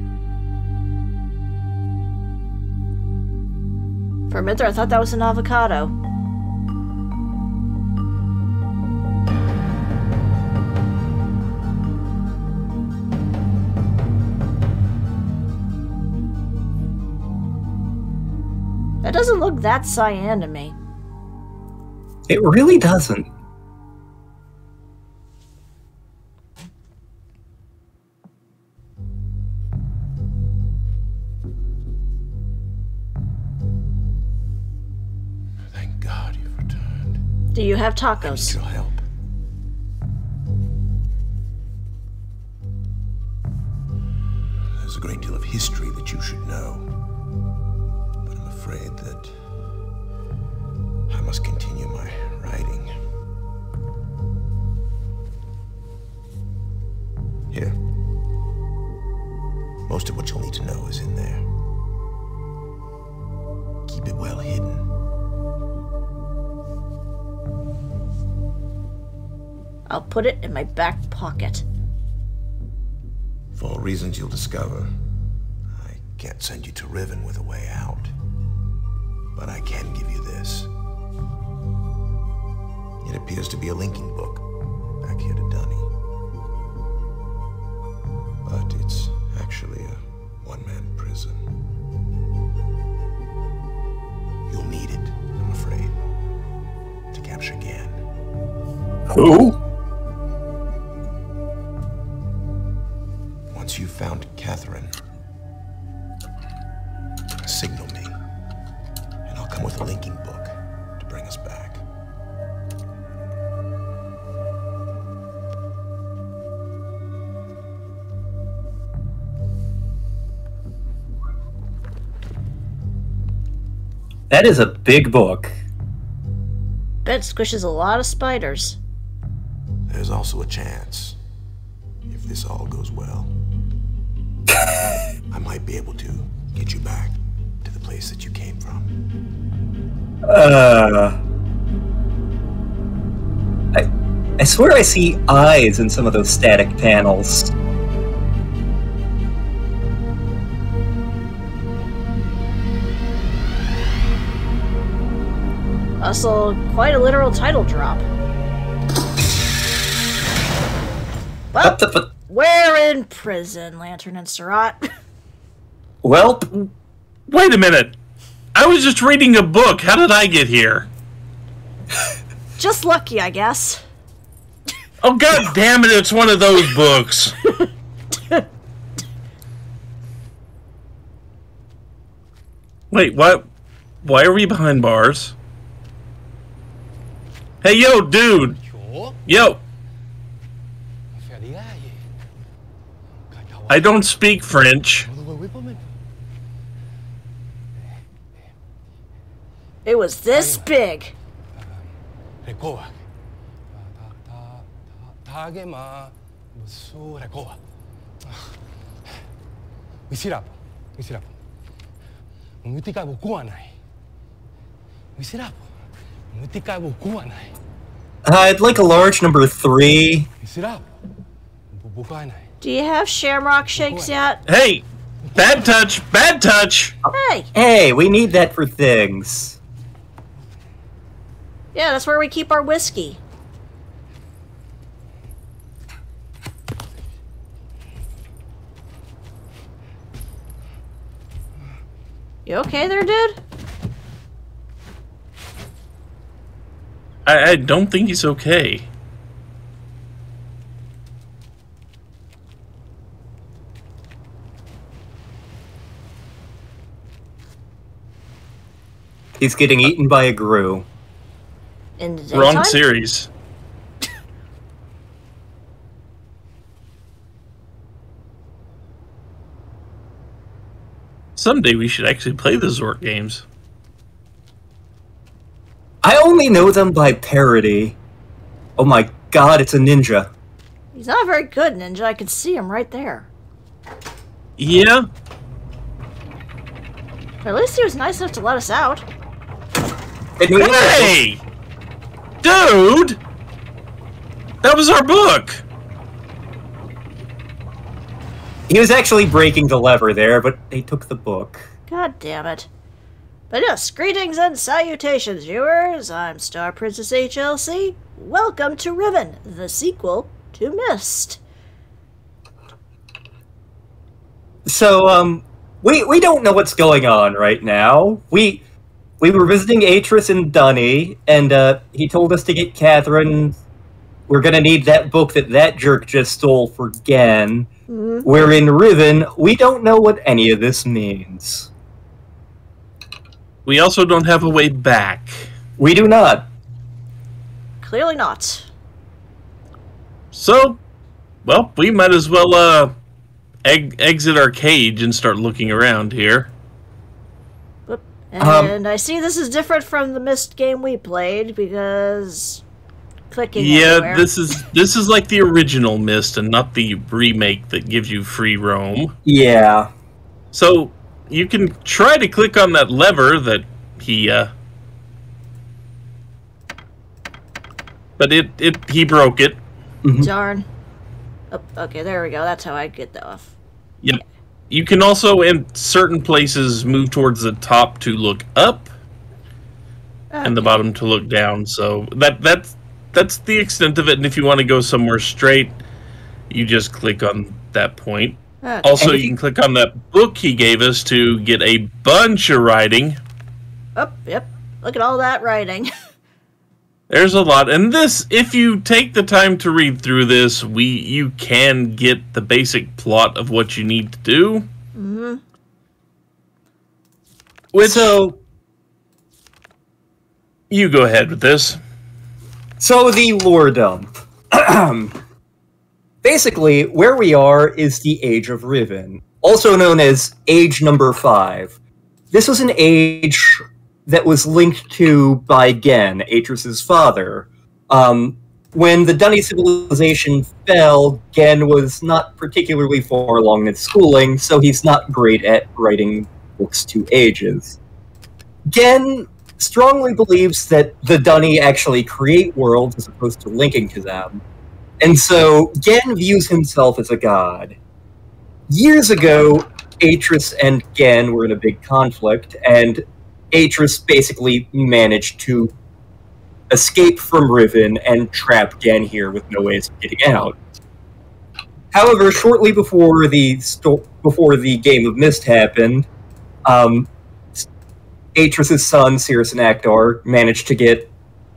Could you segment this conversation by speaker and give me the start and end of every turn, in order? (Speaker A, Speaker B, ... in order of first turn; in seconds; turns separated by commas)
Speaker A: 4.3-5.9, Speaker A: 19.0-20.8, Speaker B: 22.3-23.3, Speaker C: 35.7-37.2, Speaker A: 37.5-38.6, Speaker C: 38.2-39.0, Speaker C: 44.8-46.9, Speaker C: 48.3-49.3, Speaker C: 51.1-52.9, Speaker C: 57.5-57.8, Speaker C: 59.9-61.5, Speaker C: 63.9-64.9, Speaker A: 69.9-71.6, Speaker C: 73.5-74.9, Speaker C: 75.7-78.1, Speaker C: 79.3-80.7, Speaker C: 83.0-84.5, Speaker C: 85.0-85.9, Speaker C: 88.4-91.4, Speaker C: 94.5-96.1, Speaker C: 97.1-98.0, Speaker B: 99.1-99.6, Speaker C: 103.5-105.0, Speaker C: 107.4-108.2, Speaker C: 109.3-111.8, Speaker B: 124.3-125.5, Speaker A: 127.0-128.8, Speaker C: 129.9-131.2, Speaker C: 132.1-133.3, Speaker C: 135.3-138.9, Speaker B: 140.3-141.2, Speaker B: 144.4-147.5, Speaker A: 156.0-158.1, Speaker A: 161.5-164.9, Speaker B: 161.6-162.1, Speaker B: 166.0-166.5, Speaker D: 167.3-167.9, Speaker D: 168.6-170.9, Speaker A: 172.6-173.8, Speaker D: 175.0-177.4, Speaker D: 182.9-183.4, Speaker D: 184.0-185.3, Speaker D: 187.6-188.6, Speaker E: 188.6-189.2, Speaker D: 189.3-189.6, Speaker E: 191.1-192.0, Speaker E: 193.3-194.0, Speaker D: 193.7-195.1, Speaker E: 195.1-195.9, Speaker A: 199.8-201.1, Speaker E: 200.3-200.7, Speaker E: 201.6-201.9, Speaker E: 202.4-203.0, Speaker E: 203.7-207.6, Speaker E: 210.1-211.3, Speaker E: 212.6-213.8, Speaker E: 215.2-215.7, Speaker E: 216.3-217.6, Speaker B: 218.3-220.3, Speaker E: 220.4-220.9, Speaker E: 221.7-222.5, Speaker A: 222.6-224.4, Speaker E: 223.7-224.1, Speaker D: 224.5-224.8, Speaker D: 225.3-227.0, Speaker B: 227.1-229.6, Speaker A: 227.1-227.5, Speaker A: 231.7-233.2, Speaker A: 242.5-243.4, Speaker D: 247.3-248.9, Speaker B: 259.4-260.9, Speaker A: 262.0-262.8, Speaker D: 262.3-263.3, Speaker D: 271.4-273.4, Speaker B: 276.0-278.0, Speaker B: 278.8-280.3, Speaker A: 280.9-283.3, Speaker D: 284.6-285.1, Speaker A: 287.4-289.0, Speaker B: 290.4-291.1, Speaker D: 290.6-291.4, Speaker D: 292.4-293.2, Speaker D: 294.6-295.6, Speaker B: 298.7-301.7, Speaker A: 301.9-302.7, Speaker A: 303.5-311.4, Speaker B: 314.7-318.6, Speaker B: 319.2-323.6, Speaker B: 324.3-327.7, Speaker A: 327.9-328.3, Speaker B: 328.2-331.7, Speaker D: 333.7-335.5, Speaker B: 335.8-336.5, Speaker A: 337.8-338.7, Speaker D: 340.3-340.8, Speaker D: 341.4-342.9, Speaker D: 343.6-346.5, Speaker A: 347.9-352.6, Speaker B: 348.4-348.7, Speaker A: 353.3-354.3, Speaker D: 353.6-359.1, Speaker B: 359.2-359.9, Speaker D: 360.5-364.5, Speaker D: 368.2-369.6, Speaker B: 370.0-370.3, Speaker A: 370.2-370.7, Speaker A: 371.5-373.5, Speaker D: 374.0-378.9, Speaker A: 380.3-380.8, Speaker D: 380.4-385.8, Speaker D: 386.5-393.2, Speaker A: 388.6-389.1, Speaker B: 389.0-389.4, Speaker A: 394.0-395.9, Speaker D: 397.1-404.7, Speaker A: 404.9-405.4, Speaker D: 407.7-408.2, Speaker B: 407.8-408.4, Speaker D: 410.7-411.8, Speaker B: 412.8-415.2, Speaker B: 416.2-421.8, Speaker B: 422.3-437.8, Speaker B: 438.7-444.4, Speaker B: 445.0-447.8, Speaker B: 448.7-455.7, Speaker B: 456.7-460.6, Speaker B: 461.9-466.1, Speaker B: 466.7-467.6, Speaker B: 468.4-471.1